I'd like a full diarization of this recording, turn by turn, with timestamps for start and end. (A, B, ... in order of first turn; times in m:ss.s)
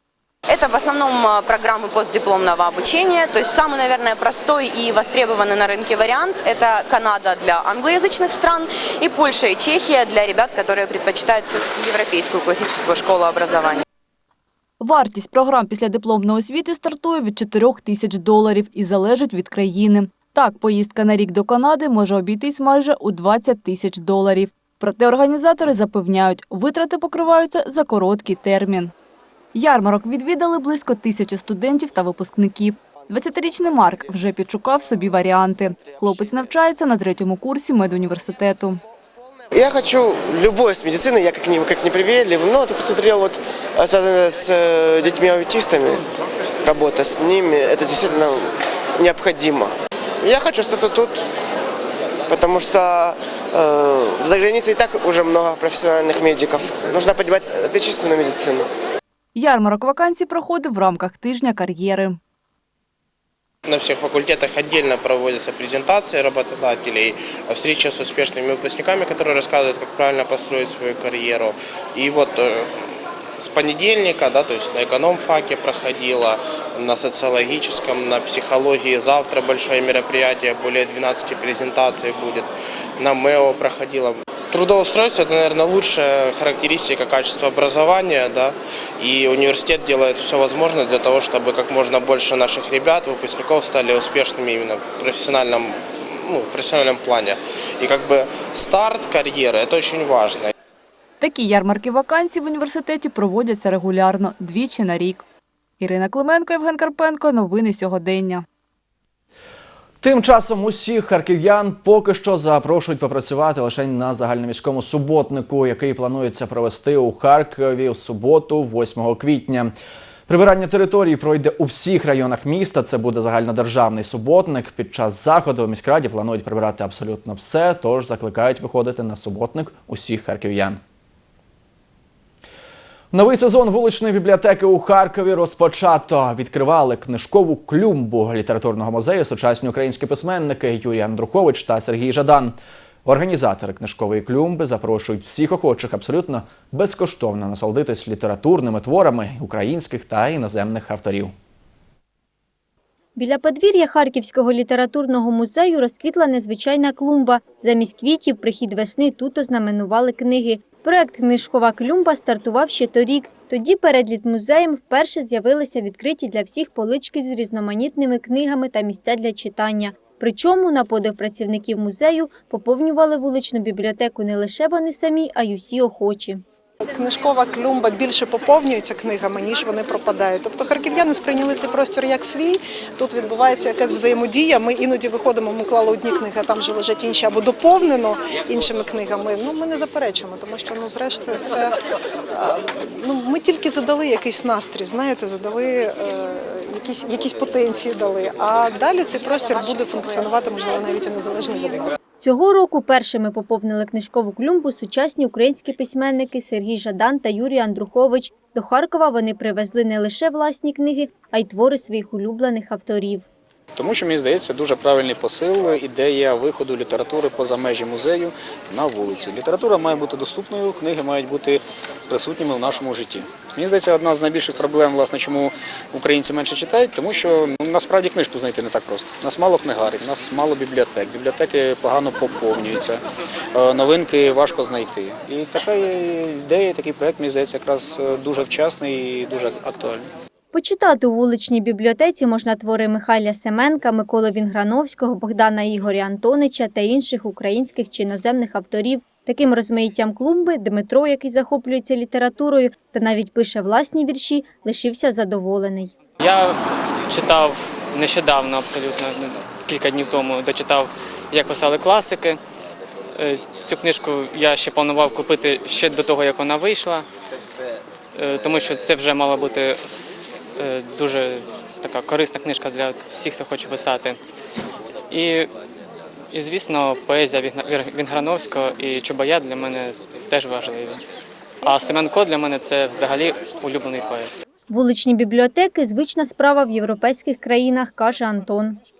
0:00.5-0:13.8 A
0:14.8-0:28.9 B
0:29.5-0:38.8 B
0:39.5-0:46.0 C
0:46.6-0:51.2 C
0:52.3-0:58.6 C
0:59.3-1:02.2 B
1:03.7-1:12.8 D
1:13.4-1:40.5 D
1:41.2-1:45.2 B
1:45.8-1:48.4 B
1:50.0-1:59.7 E
2:00.3-2:10.8 E
2:13.1-2:31.3 E
2:33.2-2:56.4 F
2:56.8-3:11.7 G
3:12.3-3:21.9 G
3:22.2-3:33.2 F
3:33.8-3:41.6 H
3:42.1-3:53.0 H
3:53.7-4:00.0 H
4:00.5-4:15.9 F
4:16.2-4:16.6 I
4:17.1-4:22.4 I
4:23.2-4:27.0 I
4:28.1-4:29.8 I
4:30.6-4:34.2 I
4:35.1-4:35.5 I
4:36.3-4:41.0 I
4:41.6-4:44.3 I
4:44.7-4:48.8 F